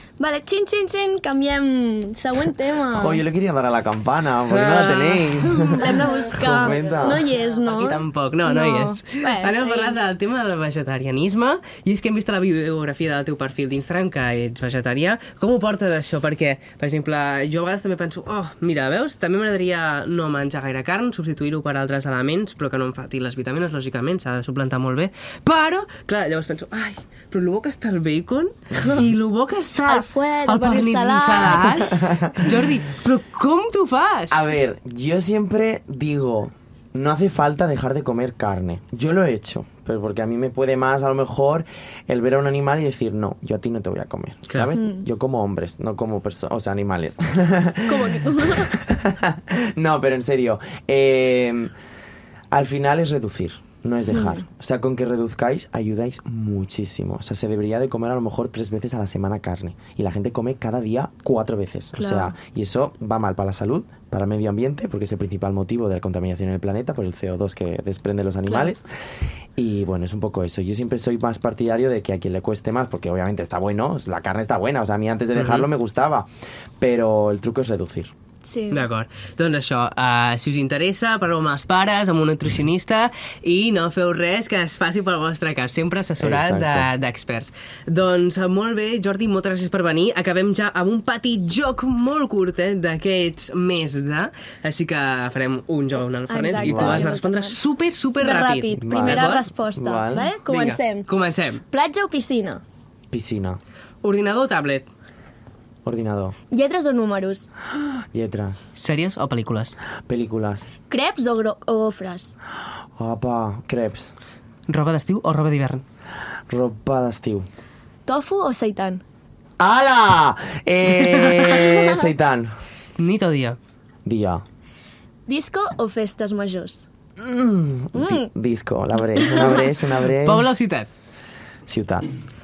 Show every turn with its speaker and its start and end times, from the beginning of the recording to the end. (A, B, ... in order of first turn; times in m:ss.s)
0:00.2-0:03.2 A
0:02.9-0:07.3 B
0:04.5-0:06.0 C
0:05.4-0:10.0 A
0:07.6-0:34.4 C
0:29.8-0:31.8 A
0:31.7-0:32.5 B
0:34.3-0:51.7 B
0:44.8-0:45.0 A
0:47.9-0:48.7 A
0:52.5-1:08.8 B
0:54.1-0:54.4 A
1:02.0-1:02.3 A
1:09.6-1:16.3 B
1:15.4-1:15.7 C
1:16.8-1:18.1 B
1:18.4-1:18.9 A
1:18.7-1:39.4 C
1:26.2-1:26.9 B
1:36.3-1:37.6 A
1:36.6-1:37.1 B
1:38.1-1:41.1 A
1:38.7-1:40.3 B
1:40.5-1:41.6 C
1:41.7-1:42.6 A
1:43.1-1:43.6 B
1:44.0-1:44.9 C
1:45.8-1:46.4 B
1:46.5-1:47.5 A
1:48.1-1:48.6 B
1:48.8-1:49.7 C
1:50.1-1:50.7 B
1:50.9-1:52.3 A
1:53.0-1:54.1 B
1:54.7-1:55.8 C
1:56.5-1:57.4 B
1:58.0-1:59.0 A
1:59.6-2:02.5 B
2:00.9-2:01.6 C
2:03.0-2:03.6 C
2:04.0-2:04.4 B
2:05.3-2:06.8 A
2:07.2-2:10.5 B
2:07.9-2:08.3 A
2:09.1-2:09.6 A
2:09.4-2:10.9 C
2:11.7-2:12.1 B